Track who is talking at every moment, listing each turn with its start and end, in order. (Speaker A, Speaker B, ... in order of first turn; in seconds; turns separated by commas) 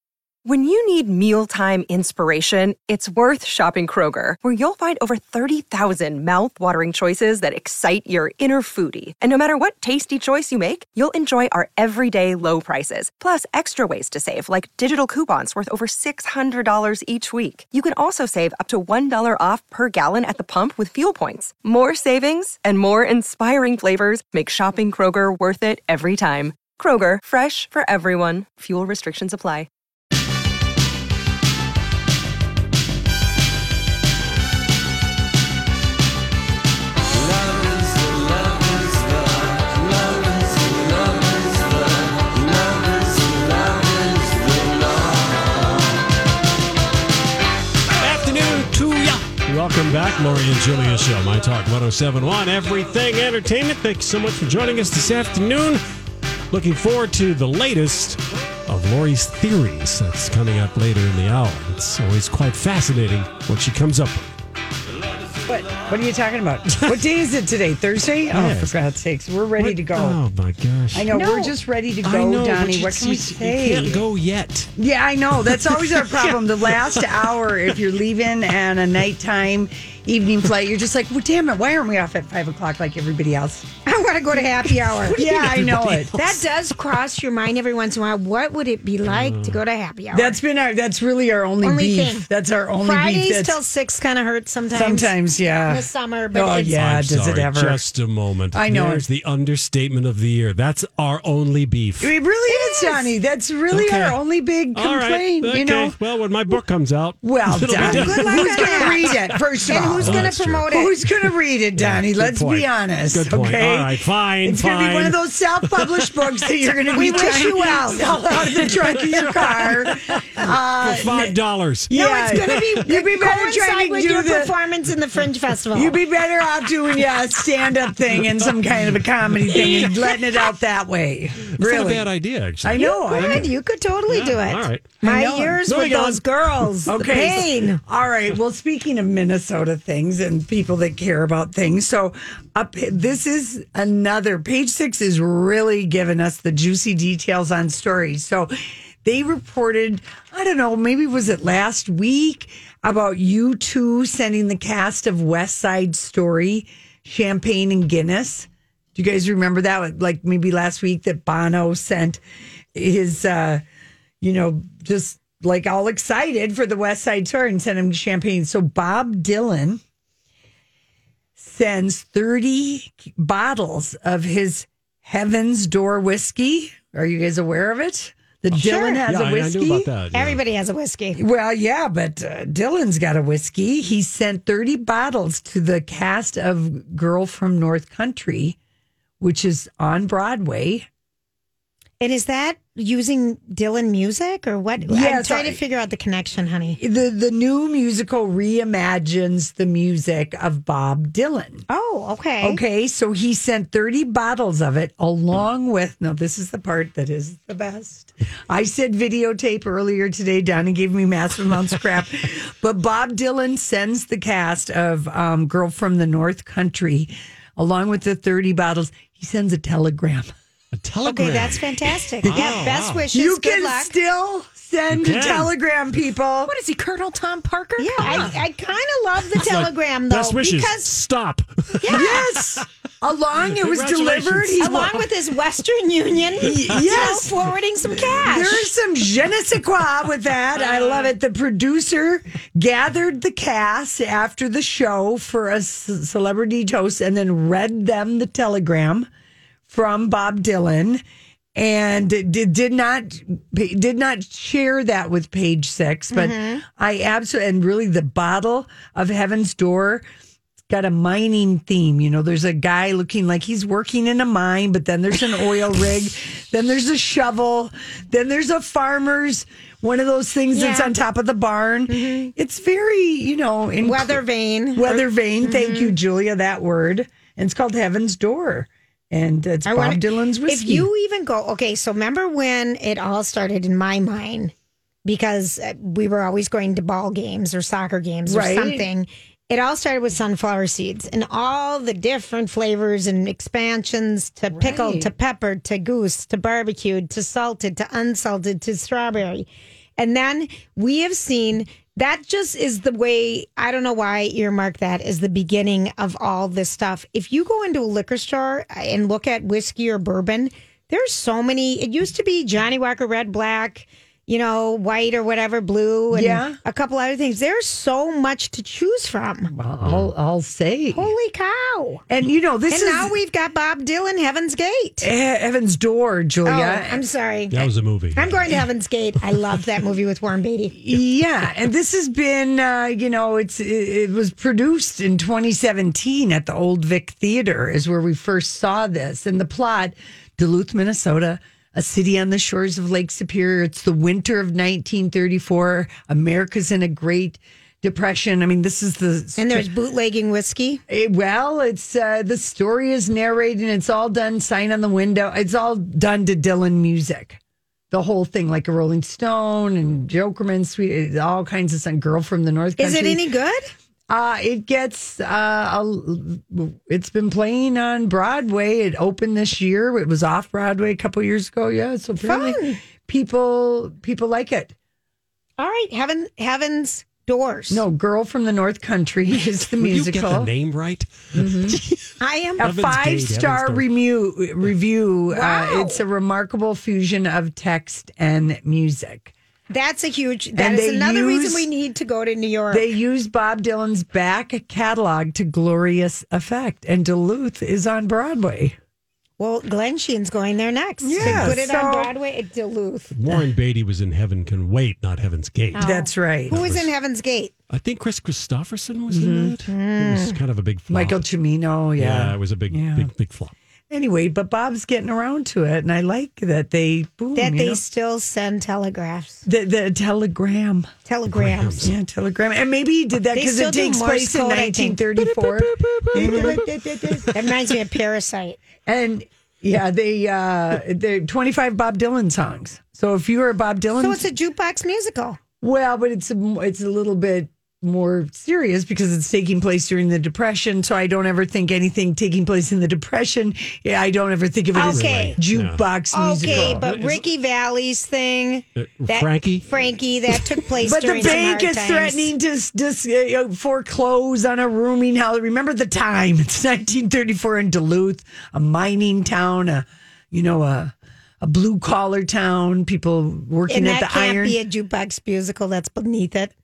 Speaker A: 0.5-29.7, Speaker B: 48.0-55.8, Speaker B: 56.5-64.3, Speaker C: 65.5-70.2, Speaker B: 66.7-67.0, Speaker B: 68.3-68.8, Speaker B: 69.6-71.2, Speaker C: 70.9-74.0, Speaker D: 71.1-71.5, Speaker B: 72.0-74.7, Speaker C: 74.8-83.7, Speaker B: 75.4-77.5, Speaker D: 83.9-85.4, Speaker C: 85.0-86.4, Speaker B: 85.2-86.4, Speaker D: 86.1-90.4, Speaker B: 89.0-89.6, Speaker C: 90.1-93.6, Speaker D: 91.6-92.3, Speaker D: 92.8-95.1, Speaker C: 94.7-97.8, Speaker D: 95.7-96.8, Speaker B: 96.7-102.1, Speaker C: 98.5-99.0, Speaker C: 102.0-106.0, Speaker D: 102.5-103.1, Speaker B: 103.7-104.2, Speaker B: 104.8-110.7, Speaker C: 107.2-121.4, Speaker D: 107.7-109.1, Speaker D: 109.7-111.0, Speaker B: 111.8-115.2, Speaker B: 115.7-116.2, Speaker D: 116.9-118.8, Speaker B: 119.2-122.8, Speaker C: 121.9-124.6, Speaker D: 121.9-126.0, Speaker C: 125.7-132.1, Speaker B: 129.4-130.2, Speaker B: 131.6-133.5, Speaker C: 132.6-133.5, Speaker D: 132.8-137.8, Speaker B: 134.1-136.9, Speaker C: 136.9-148.5, Speaker C: 149.0-162.2, Speaker C: 162.7-163.6, Speaker C: 164.2-169.8, Speaker C: 171.4-179.9, Speaker D: 178.6-179.1, Speaker B: 179.0-180.4, Speaker D: 180.1-181.2, Speaker C: 181.2-188.6, Speaker C: 189.2-190.9, Speaker D: 192.0-196.8, Speaker C: 194.8-195.6, Speaker C: 196.8-201.7, Speaker D: 201.7-202.6, Speaker C: 202.4-220.3, Speaker B: 220.7-223.1, Speaker D: 221.0-223.9, Speaker C: 222.3-226.6, Speaker B: 224.9-225.5, Speaker E: 226.5-228.3, Speaker D: 227.8-230.9, Speaker B: 228.0-228.3, Speaker B: 229.3-232.6, Speaker D: 231.8-232.2, Speaker C: 231.9-235.0, Speaker B: 233.5-234.9, Speaker D: 234.6-238.7, Speaker C: 236.4-237.3, Speaker C: 238.2-249.1, Speaker C: 249.7-251.0, Speaker C: 251.6-260.1, Speaker D: 256.1-256.6, Speaker C: 260.7-274.2, Speaker D: 270.5-270.9, Speaker D: 271.9-272.3, Speaker D: 273.8-275.9, Speaker C: 274.7-280.9, Speaker D: 279.7-284.5, Speaker D: 285.1-319.5, Speaker C: 288.2-288.9, Speaker C: 294.5-295.1, Speaker C: 316.1-316.6, Speaker C: 319.5-321.1, Speaker D: 320.9-322.0, Speaker C: 322.1-323.1, Speaker D: 322.7-325.1, Speaker C: 325.0-327.0, Speaker D: 326.4-330.8, Speaker B: 327.5-328.6, Speaker C: 330.8-349.7, Speaker D: 349.4-350.8, Speaker C: 350.9-357.4, Speaker C: 357.9-363.2, Speaker D: 362.8-363.7, Speaker C: 364.1-374.8, Speaker D: 372.2-372.8, Speaker D: 375.6-377.8, Speaker C: 377.7-380.5, Speaker B: 379.8-383.9, Speaker E: 381.4-381.8, Speaker D: 382.2-382.6, Speaker C: 382.6-389.3, Speaker D: 385.3-386.0, Speaker D: 389.7-392.9, Speaker C: 390.6-391.7, Speaker C: 392.7-398.8, Speaker D: 399.4-403.1, Speaker C: 401.0-402.1, Speaker B: 401.2-401.6, Speaker B: 403.1-405.9, Speaker C: 405.8-406.7, Speaker D: 405.8-407.5, Speaker B: 406.5-406.9, Speaker B: 407.7-411.2, Speaker C: 409.1-409.6, Speaker D: 409.7-410.4, Speaker C: 410.9-413.1, Speaker B: 412.0-413.5, Speaker C: 413.9-417.8, Speaker D: 417.4-419.4, Speaker C: 419.5-420.9, Speaker D: 421.1-421.9, Speaker B: 421.3-421.9, Speaker C: 421.8-427.3, Speaker D: 423.4-425.0, Speaker B: 425.2-426.7, Speaker D: 426.1-428.6, Speaker C: 428.9-434.2, Speaker D: 434.0-435.4, Speaker C: 435.6-447.0, Speaker D: 444.7-445.4, Speaker B: 444.8-445.8, Speaker D: 446.1-452.3, Speaker B: 446.4-447.3, Speaker B: 448.8-449.7, Speaker C: 450.8-464.6, Speaker D: 463.7-466.5